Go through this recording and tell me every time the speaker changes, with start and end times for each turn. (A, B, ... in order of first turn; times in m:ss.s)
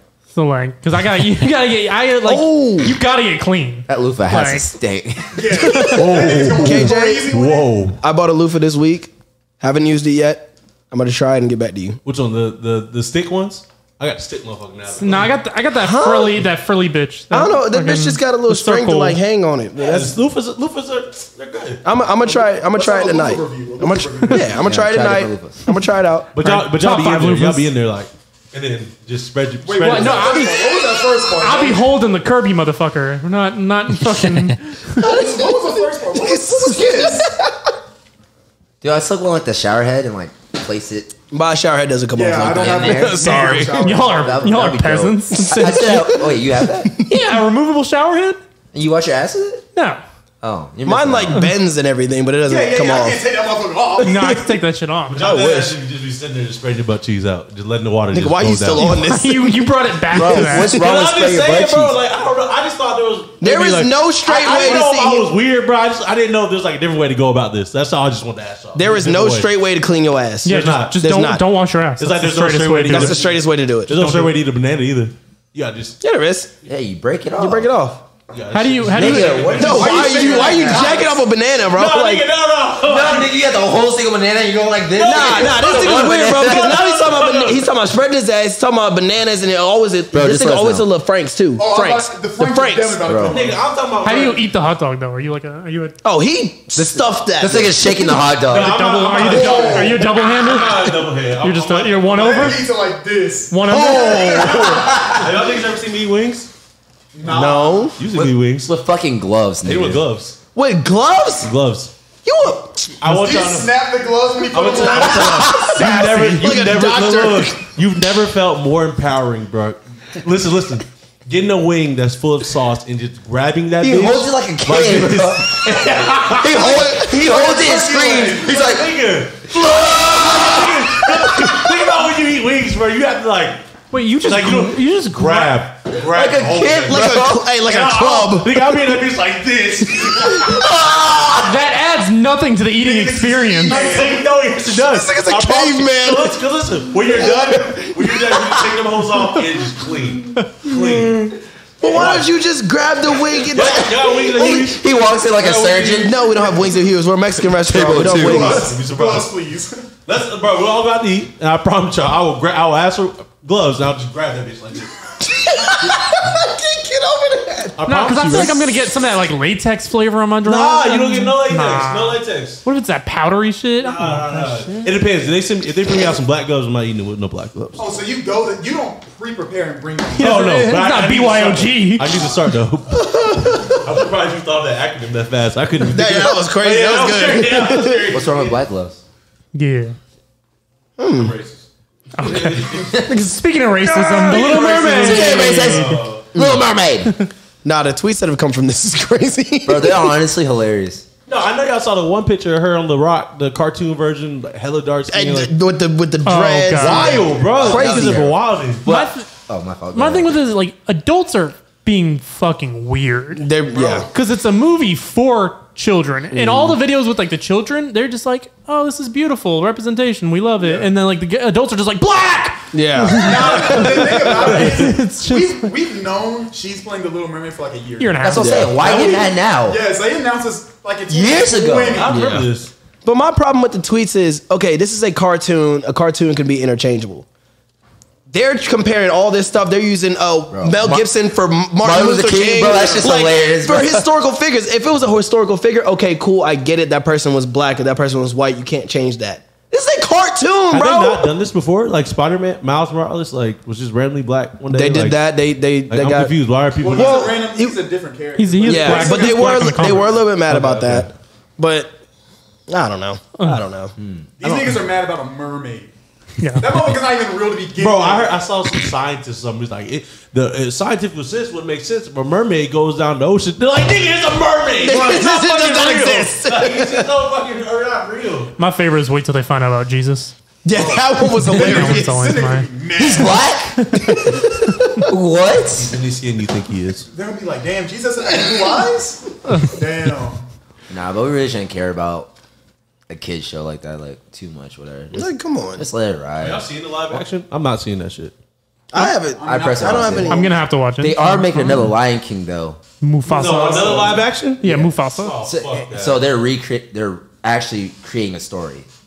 0:00.3-0:04.7 A
0:02.2-0:03.0 B
0:03.9-0:05.9 C
0:05.3-0:07.8 D
0:05.6-0:06.0 A
0:05.9-0:08.0 E
0:06.5-0:07.4 B
0:08.0-0:12.0 B
0:12.0-0:15.3 E
0:15.0-0:19.2 A
0:15.8-0:16.5 B
0:17.3-0:20.2 B
0:19.8-0:21.8 E
0:21.8-0:26.3 B
0:22.2-0:24.7 D
0:24.5-0:25.6 C
0:26.4-0:30.5 E
0:26.4-0:27.7 A
0:29.6-0:31.9 D
0:29.8-0:35.0 A
0:35.0-0:37.4 D
0:35.0-0:37.5 B
0:38.8-0:41.1 C
0:41.3-0:44.0 B
0:42.2-0:44.5 D
0:42.5-0:46.9 C
0:43.8-0:46.0 A
0:45.3-0:47.1 B
0:47.1-0:48.4 A
0:48.7-0:49.7 C
0:49.8-0:50.0 A
0:50.4-0:51.5 C
0:50.8-0:53.2 B
0:52.5-0:54.4 D
0:54.0-0:55.2 A
0:55.1-0:58.9 E
0:55.2-0:55.8 B
0:58.1-1:00.8 B
0:58.8-1:00.7 A
1:00.1-1:02.0 C
1:00.6-1:09.5 E
1:03.4-1:05.3 B
1:08.8-1:11.5 B
1:10.4-1:13.2 A
1:10.5-1:11.0 E
1:12.0-1:16.0 E
1:12.9-1:14.3 B
1:16.0-1:16.5 B
1:16.6-1:17.7 C
1:17.4-1:18.0 B
1:18.3-1:20.3 E
1:18.5-1:19.6 A
1:18.9-1:21.1 C
1:19.6-1:22.3 B
1:19.6-1:21.2 D
1:21.7-1:23.4 E
1:22.8-1:26.9 C
1:24.9-1:27.7 E
1:25.0-1:33.1 B
1:30.1-1:30.9 C
1:31.6-1:33.6 D
1:33.1-1:33.4 C
1:33.2-1:34.4 E
1:34.0-1:36.0 A
1:36.0-1:38.3 B
1:36.8-1:38.8 C
1:38.5-1:42.5 E
1:38.5-1:42.6 A
1:39.2-1:40.0 D
1:42.1-1:45.0 D
1:43.5-1:44.8 A
1:43.7-1:44.8 B
1:44.6-1:45.3 C
1:45.1-1:46.5 E
1:47.1-1:47.9 D
1:47.2-1:48.0 B
1:48.0-1:48.7 E
1:48.1-1:50.0 C
1:49.6-1:50.4 E
1:50.6-1:51.5 B
1:51.4-1:51.9 E
1:52.2-1:53.0 B
1:53.0-1:53.7 E
1:53.0-1:55.7 D
1:54.5-2:07.2 E
1:55.2-1:57.6 B
2:03.8-2:09.0 C
2:07.1-2:08.7 D
2:08.2-2:13.6 E
2:09.9-2:11.7 C
2:13.9-2:15.6 A
2:14.2-2:20.7 E
2:16.1-2:17.4 C
2:16.9-2:18.8 B
2:20.3-2:21.6 C
2:21.4-2:23.9 A
2:22.8-2:24.3 D
2:23.7-2:32.3 E
2:24.8-2:26.4 B
2:27.2-2:27.8 C
2:31.8-2:34.6 B
2:33.5-2:36.6 E
2:33.8-2:36.2 C
2:36.0-2:38.7 B
2:37.5-2:39.3 E
2:37.7-2:38.7 C
2:38.3-2:39.9 D
2:40.1-2:44.9 E
2:45.2-2:47.8 B
2:47.8-2:48.7 E
2:47.9-2:54.9 A
2:50.4-2:52.6 E
2:53.8-2:57.8 E
2:57.8-3:00.6 D
3:00.2-3:02.2 A
3:00.2-3:08.6 E
3:03.0-3:03.8 B
3:05.8-3:08.1 B
3:08.1-3:09.0 C
3:09.6-3:10.0 A
3:11.0-3:11.4 B
3:11.1-3:11.6 E
3:12.2-3:13.0 E
3:12.2-3:16.0 A
3:13.8-3:16.3 E
3:14.6-3:17.1 C
3:15.3-3:15.7 B
3:16.3-3:16.6 B
3:17.6-3:20.2 B
3:19.7-3:21.0 C
3:21.3-3:25.5 E
3:25.1-3:28.3 B
3:26.2-3:27.2 A
3:26.8-3:28.9 E
3:27.6-3:30.4 C
3:28.9-3:29.3 A
3:29.9-3:33.5 A
3:33.4-3:34.1 B
3:33.7-3:34.1 D
3:34.1-3:45.7 A
3:36.3-3:36.8 B
3:40.6-3:40.9 D
3:42.7-3:44.0 B
3:43.2-3:52.3 D
3:48.0-3:48.8 A
3:48.2-3:49.8 C
3:51.1-3:52.1 C
3:52.0-3:52.7 E
3:52.1-3:52.5 B
3:53.0-3:57.3 B
3:58.3-4:11.3 B
4:00.5-4:01.1 C
4:01.8-4:04.1 C
4:02.9-4:03.2 D
4:10.7-4:15.2 E
4:14.7-4:16.4 B
4:15.9-4:17.4 E
4:16.8-4:20.2 D
4:16.9-4:17.8 B
4:18.4-4:20.1 A
4:18.6-4:22.0 B
4:20.4-4:21.1 E
4:22.7-4:24.8 B
4:24.0-4:24.3 C
4:24.4-4:25.9 D
4:26.4-4:26.7 A
4:26.6-4:28.4 D
4:27.8-4:38.6 E
4:34.8-4:37.1 B
4:38.6-4:40.4 A
4:40.6-4:42.2 B
4:40.8-4:43.5 D
4:41.4-4:42.7 A
4:43.0-4:43.8 C
4:43.8-4:45.1 A
4:45.1-4:45.9 C
4:45.7-4:47.1 E
4:47.1-4:50.4 D
4:50.9-4:52.3 C
4:53.1-4:57.2 C
4:55.1-4:55.9 B
4:56.4-4:58.4 E
4:58.9-5:00.5 B
4:59.3-5:00.5 D
4:59.4-5:00.4 C
5:00.3-5:01.8 A
5:01.0-5:02.8 C
5:03.0-5:04.1 A
5:03.3-5:06.2 E
5:03.8-5:04.0 B
5:04.6-5:05.4 A
5:05.4-5:08.9 C